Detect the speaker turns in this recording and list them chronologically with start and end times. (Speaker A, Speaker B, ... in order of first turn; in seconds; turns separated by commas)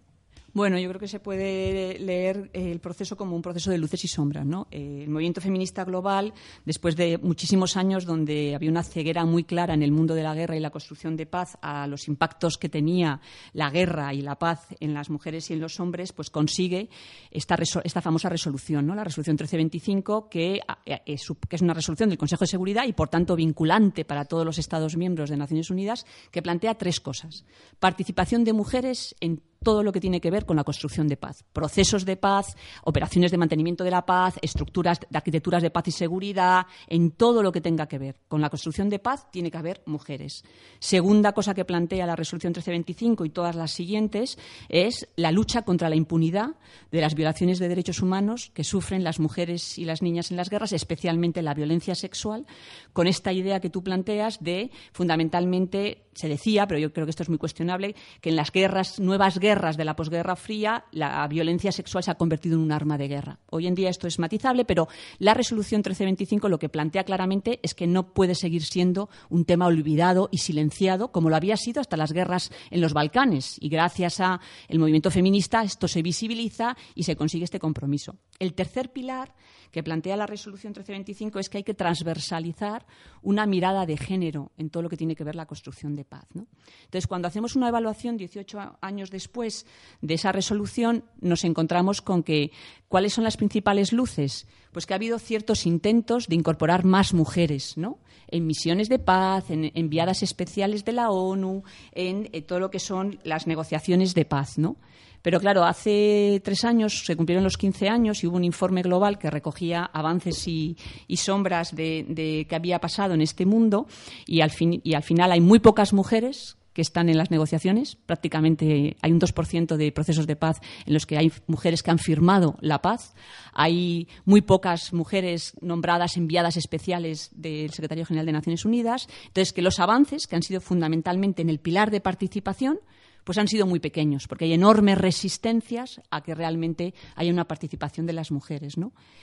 Speaker A: 0.5-138.9